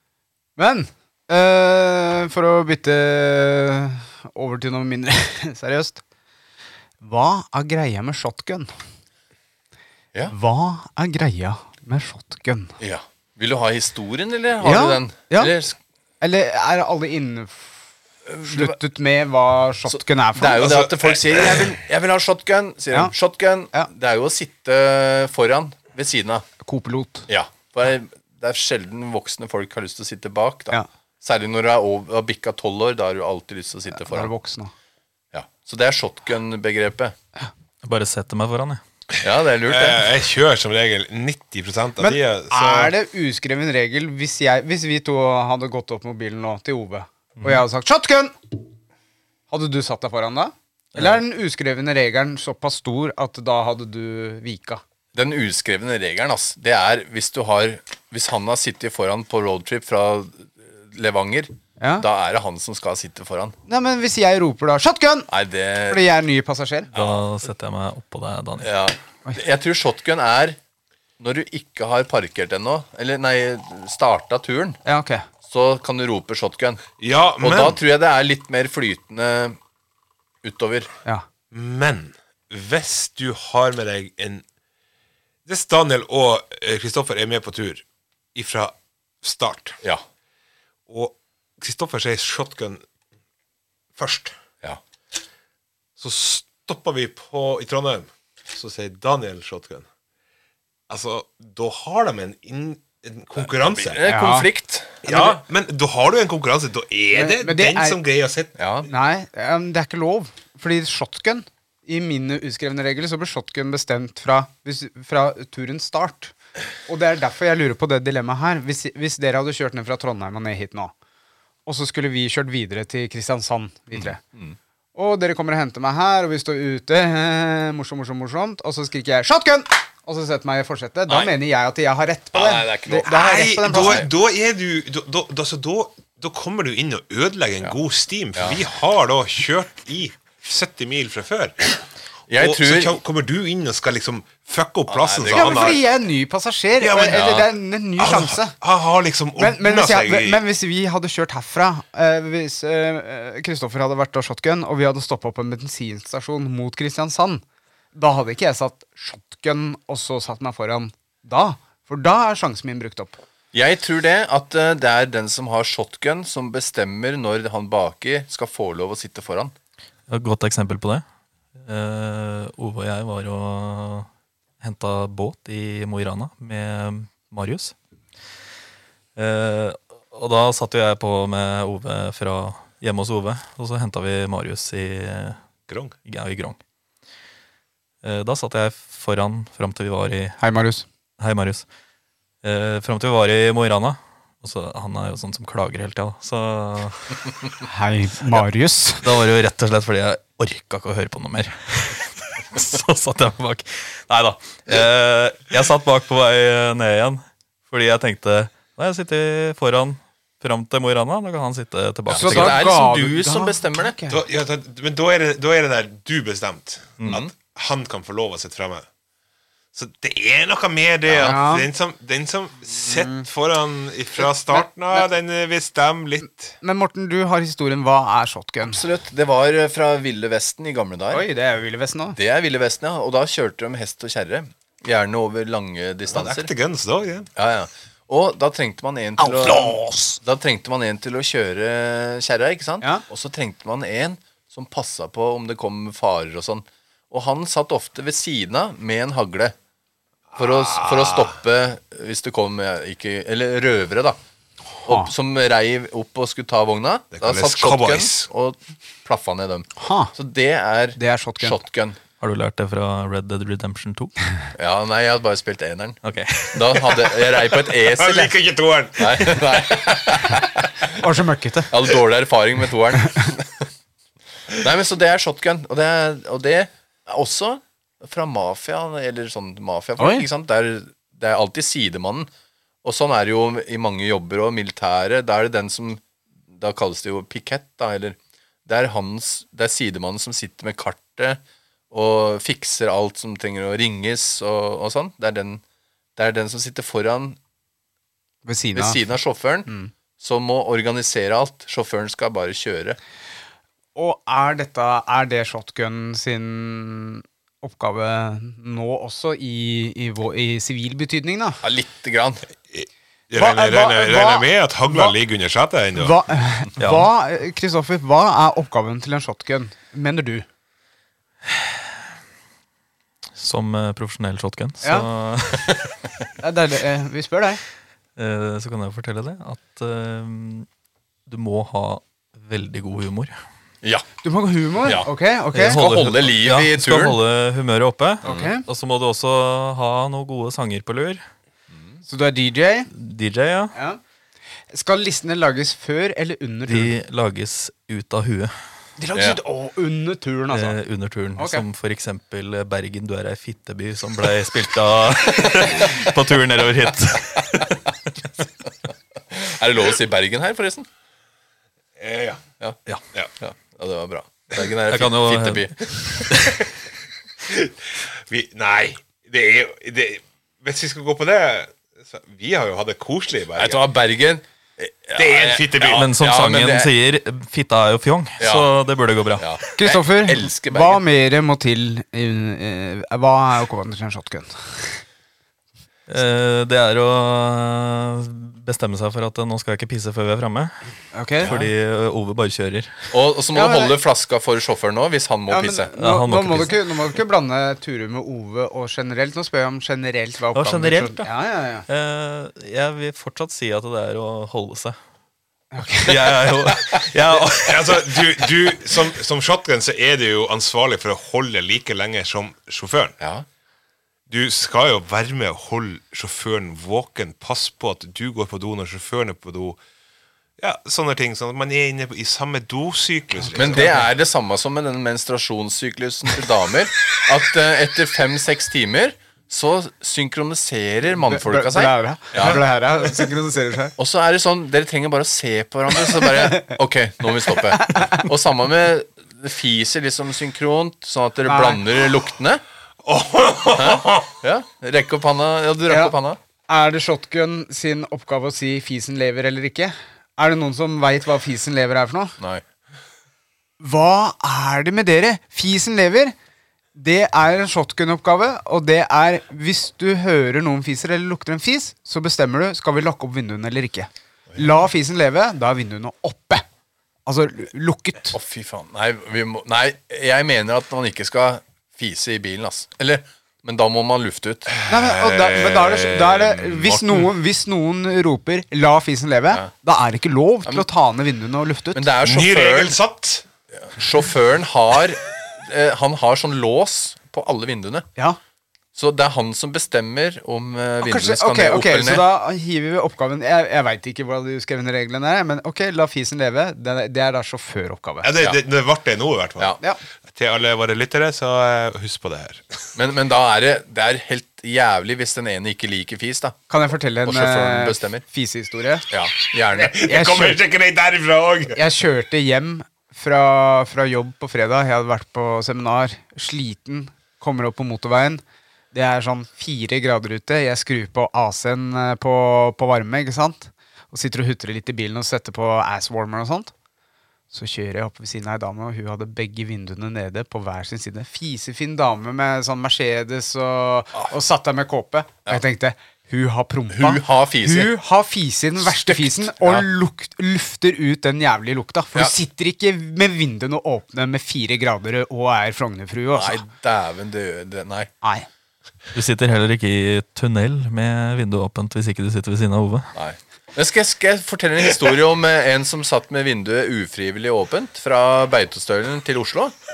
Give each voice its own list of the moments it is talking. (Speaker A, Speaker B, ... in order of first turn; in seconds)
Speaker A: 0.6-6.0, 7.0-8.7, 10.3-12.8, 14.6-15.5, 16.2-17.8, 18.4-20.7, 26.6-27.3, 33.9-34.7, 42.0-48.6, 49.5-54.8, 61.8-62.0, 63.7-65.3, 65.9-66.9, 74.8-75.2, 104.0-104.5, 107.1-108.0, 108.9-116.3, 116.9-120.9, 121.7-124.2, 124.9-134.1, 145.3-148.5, 149.4-157.4, 157.9-163.2, 190.4-190.8, 197.6-199.0, 212.1-214.2, 221.2-221.7, 222.8-223.2, 224.5-225.1, 226.6-228.8, 231.1-232.2, 239.2-240.2, 254.8-255.1, 259.8-260.1, 261.0-261.6, 271.0-271.7, 273.0-273.3, 280.0-280.2, 298.4-299.1, 303.9-311.6, 313.3-315.1, 315.9-320.4, 324.8-325.1, 326.4-327.6, 334.2-335.8, 338.2-338.6, 342.1-342.9, 343.7-344.0, 344.7-347.0, 349.0-350.8, 351.4-351.6, 379.8-385.0, 391.1-391.5, 393.5-393.9, 395.5-401.9, 405.7-406.2, 423.6-424.0, 431.1-433.9, 436.4-436.7, 437.5-438.3, 441.4-441.8, 445.9-446.1, 446.7-452.4, 453.8-456.3, 456.9-466.6, 467.2-468.4, 474.9-482.1, 491.0-498.3, 506.7-509.1, 510.0-510.6, 511.7-526.7, 527.5-546.6, 548.2-548.5
Speaker B: 12.8-15.8, 18.2-18.8, 19.9-26.4, 27.3-34.3, 35.3-37.1, 39.2-40.0, 55.1-63.5, 65.3-66.0, 66.9-67.2, 68.6-70.6, 71.2-74.8, 75.4-76.8, 77.4-79.6, 80.4-80.9, 103.4-105.4, 108.6-108.9, 123.9-124.6, 132.3-134.1, 142.3-143.0, 144.9-145.8, 147.1-147.4, 163.5-169.5, 212.1-213.9, 217.1-217.3, 221.1-221.4, 228.7-231.2, 232.1-236.5, 237.3-249.5, 250.3-254.2, 254.8-262.0, 264.5-266.0, 266.5-268.3, 269.0-270.8, 271.7-273.7, 274.5-282.3, 282.8-291.4, 291.9-295.6, 296.1-297.4, 298.7-303.0, 311.6-312.4, 334.8-335.1, 335.6-337.2, 338.2-338.5, 359.3-360.9, 363.4-366.4, 373.6-376.9, 378.4-378.7, 379.4-381.0, 391.4-391.7, 393.1-395.9, 413.2-413.4, 423.5-432.6, 434.0-442.6, 443.7-446.4, 452.4-452.6, 468.3-474.7, 481.9-483.0, 483.8-488.1, 488.9-492.2, 502.9-506.6, 507.2-508.2, 509.1-510.2, 536.9-537.9, 539.0-539.9, 546.3-548.1, 553.1-559.7
Speaker C: 20.6-21.7, 39.6-42.9, 77.0-77.8, 81.5-84.4, 85.5-89.8, 90.9-92.8, 94.0-94.3, 96.0-99.9, 100.9-104.0, 105.0-108.6, 133.0-141.8, 142.4-145.8, 146.8-147.3, 148.0-150.4, 185.7-185.9, 214.1-218.8, 219.7-226.5, 236.1-237.3, 250.3-251.3, 257.1-258.3, 267.7-270.2, 312.7-316.2, 362.0-362.4, 367.4-373.8, 375.1-376.1, 407.6-413.1, 414.3-419.8, 420.6-424.0, 443.0-444.3, 474.7-477.3, 482.2-483.4, 498.2-502.9, 509.7-511.8
Speaker D: 37.8-38.8, 66.9-68.7, 170.1-171.0, 171.6-174.1, 174.6-177.7, 179.2-185.4, 186.1-186.6, 188.0-190.4, 191.2-191.7, 192.4-197.4, 199.0-212.6, 262.2-264.2, 266.0-267.0, 316.8-317.1, 323.4-325.8, 328.2-330.7, 331.3-333.3, 335.5-341.2, 342.9-343.7, 346.7-348.5, 350.5-358.0, 364.9-366.7, 375.8-379.6, 386.1-390.8, 391.4-392.9, 396.0-396.8, 400.5-401.3, 401.9-405.0, 406.0-408.4, 549.1-553.1